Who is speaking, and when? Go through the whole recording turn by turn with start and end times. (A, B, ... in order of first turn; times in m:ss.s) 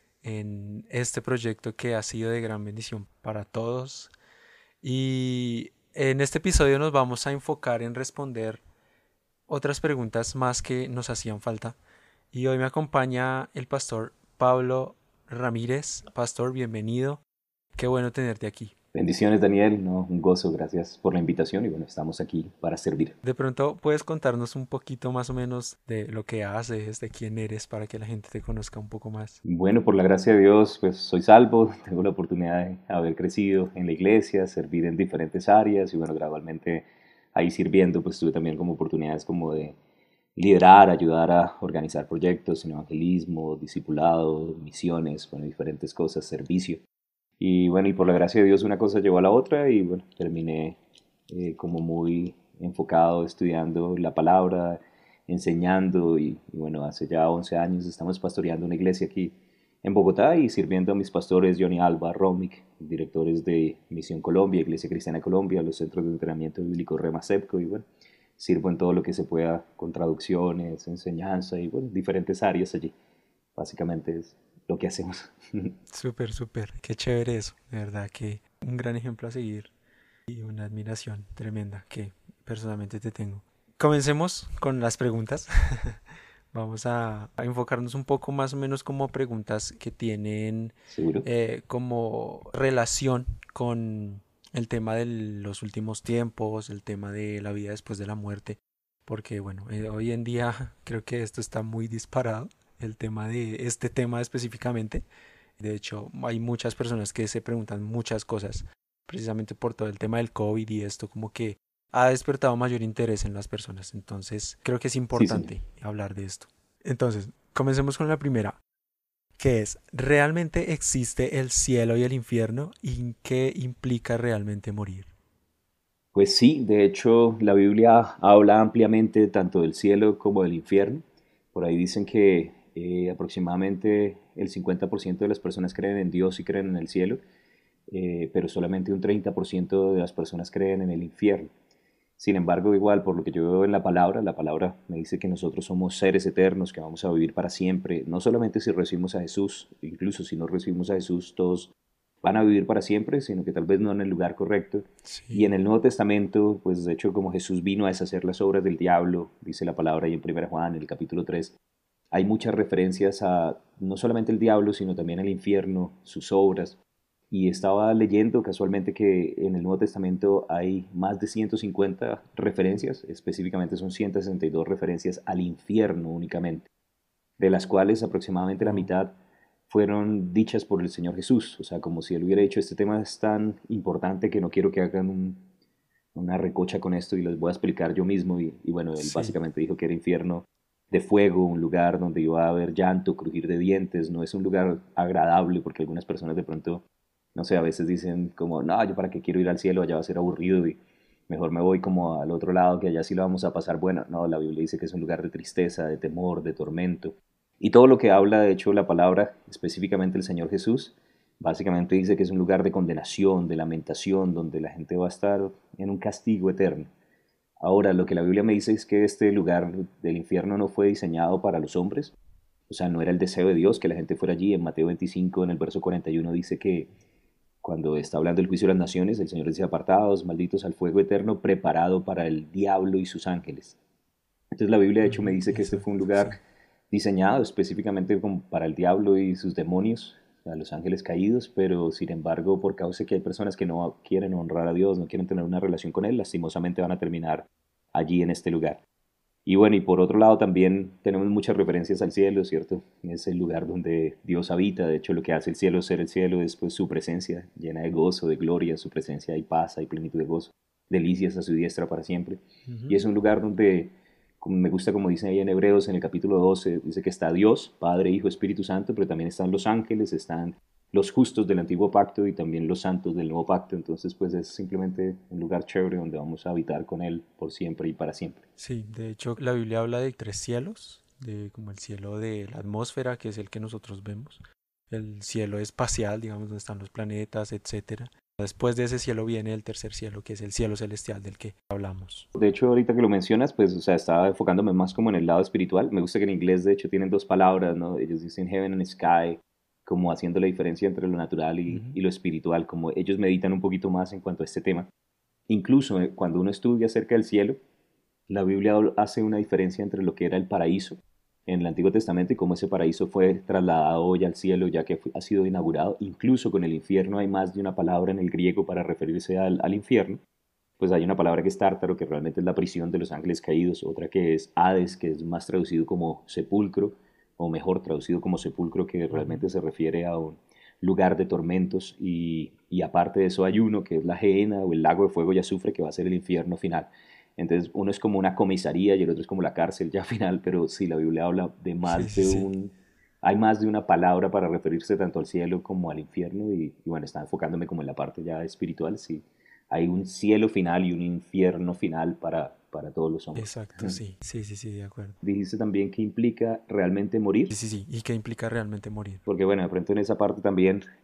0:00.2-0:04.1 A
0:04.8-0:08.6 A
0:09.5-0:11.8 A
0:12.3-0:17.2 A
0:17.8-0:18.7 A
0:18.9-0:23.2 B
0:23.2-0:29.4 A
0:29.4-0:39.8 B
0:40.4-0:46.8 B
0:47.4-0:50.8 B
0:51.3-1:07.8 B
1:08.4-1:12.9 B
1:13.6-1:15.7 B
1:15.9-1:19.7 A
1:20.3-1:26.0 A
1:26.5-1:45.0 A
1:30.9-1:31.2 B
1:45.6-1:58.6 A
1:55.1-1:55.5 B
1:59.4-2:05.1 A
2:06.1-2:17.2 B
2:17.9-2:21.5 B
2:22.2-2:31.7 B
2:32.2-2:41.5 B
2:35.1-2:35.5 A
2:42.1-2:46.8 B
2:47.3-2:56.7 B
2:57.4-2:59.1 B
2:58.6-2:58.9 A
2:59.7-3:05.4 B
3:06.1-3:16.8 B
3:09.0-3:09.4 A
3:17.3-3:20.8 B
3:21.3-3:36.9 B
3:37.6-3:42.1 B
3:42.7-3:46.9 B
3:47.6-3:53.8 B
3:54.5-3:56.4 B
3:55.0-3:56.4 A
3:56.9-4:08.8 B
4:09.4-4:38.4 B
4:22.7-4:23.0 A
4:38.6-4:52.3 A
4:52.4-5:04.9 B
5:01.7-5:02.0 A
5:05.5-5:07.6 B
5:08.3-5:20.2 B
5:20.8-5:54.0 B
5:29.1-5:29.5 A
5:41.8-5:42.5 A
5:53.4-5:55.2 A
5:55.2-5:57.5 B
5:57.5-5:59.2 A
5:59.3-6:00.8 B